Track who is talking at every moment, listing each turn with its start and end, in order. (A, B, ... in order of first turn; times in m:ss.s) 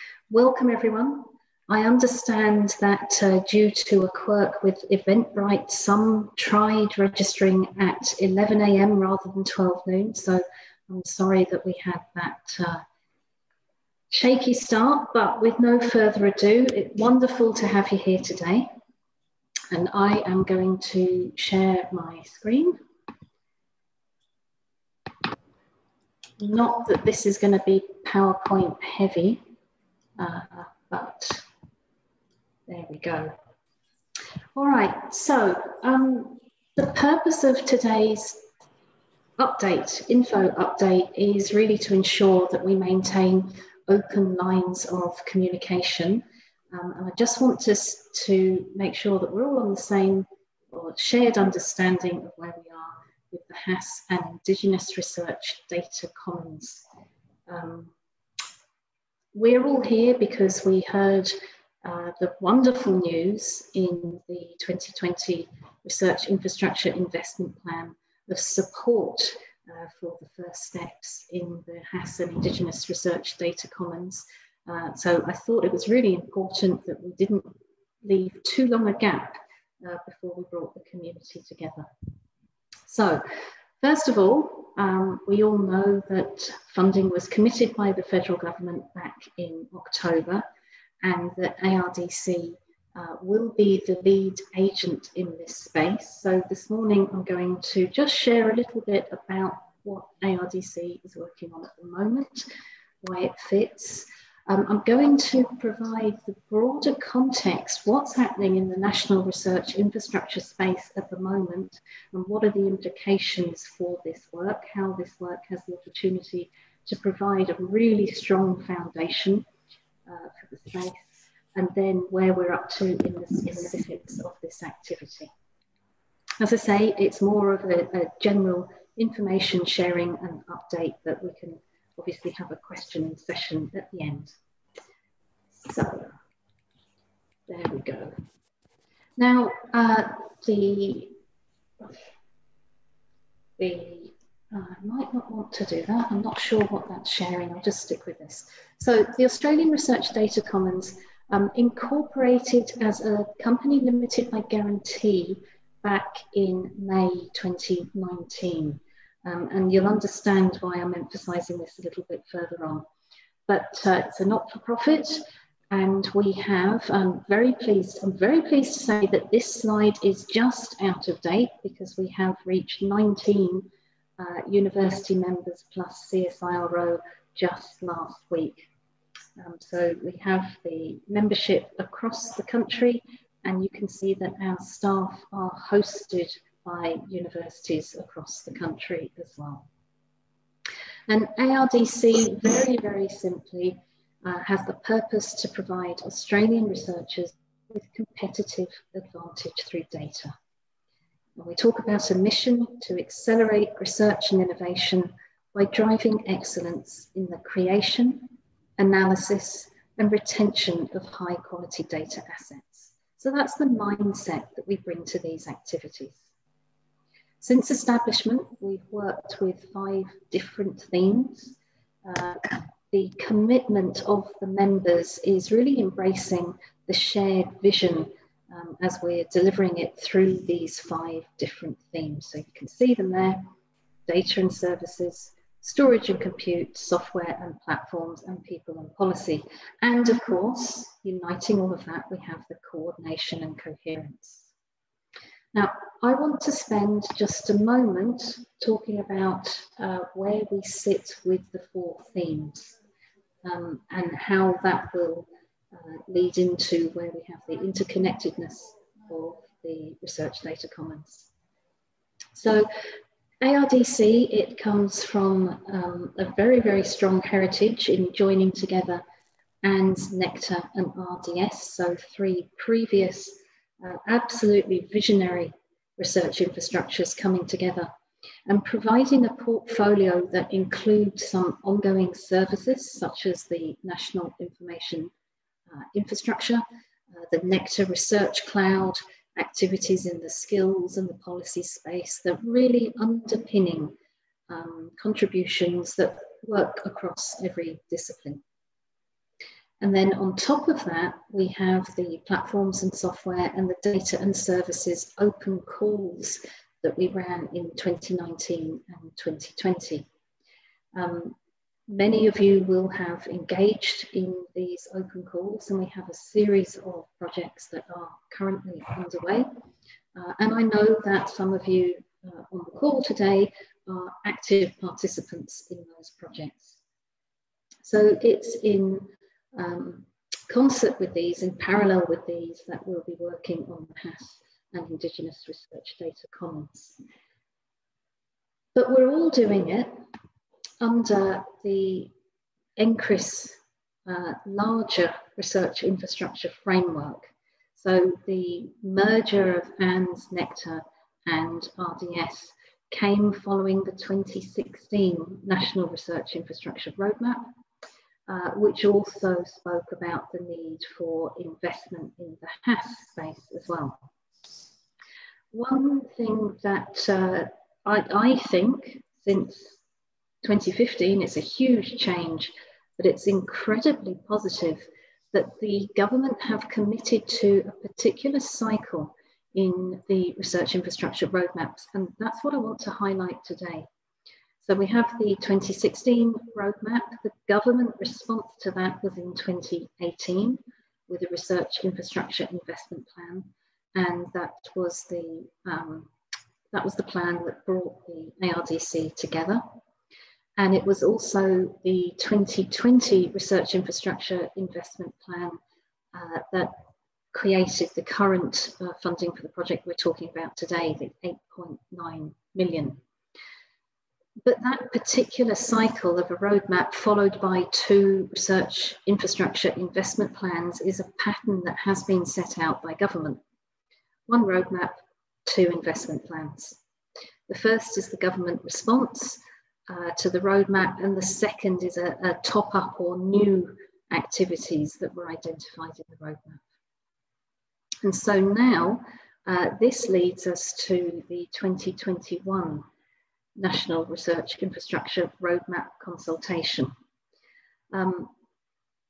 0:00.3-0:12.8 A
0:14.1-0:18.7 A
0:19.7-0:22.8 A
0:26.4-0:29.4 A
0:30.2-0:31.4 A
0:32.7-0:33.3 A
0:34.5-0:38.4 A
0:39.4-0:56.8 A
0:57.5-0:57.9 A
0:59.3-1:21.9 A
1:22.9-1:23.2 A
1:23.8-1:30.4 A
1:31.0-1:42.5 A
1:43.0-1:59.4 A
2:00.1-2:05.3 A
2:06.4-2:14.3 A
2:15.6-2:16.1 A
2:17.5-2:18.2 A
2:19.2-2:21.1 A
2:23.6-2:42.8 A
2:43.5-2:58.7 A
2:59.4-3:09.6 A
3:11.1-3:20.3 A
3:21.4-3:36.3 A
3:37.4-3:53.5 A
3:54.0-4:04.5 A
4:05.5-4:12.8 A
4:13.4-4:21.3 A
4:22.3-4:22.7 A
4:23.4-4:29.0 A
4:29.6-4:37.9 A
4:38.5-4:45.1 A
4:45.7-4:46.6 A
4:47.2-4:53.9 A
4:54.5-4:58.4 A
4:59.8-5:10.1 A
5:10.9-5:11.4 A
5:11.9-5:19.5 A
5:20.1-5:26.8 A
5:27.8-5:37.0 A
5:38.7-5:40.0 A
5:40.8-5:42.1 A
5:42.8-5:57.4 A
5:58.3-6:04.0 A
6:05.5-6:09.8 A
6:10.4-6:23.9 A
6:24.6-6:36.1 A
6:36.7-6:39.6 A
6:40.6-6:45.6 A
6:46.1-6:46.8 A
6:47.3-6:53.0 A
6:54.4-7:03.4 A
7:04.3-7:06.8 A
7:07.5-7:16.6 A
7:18.0-7:22.8 A
7:23.6-7:26.9 A
7:27.9-7:28.3 A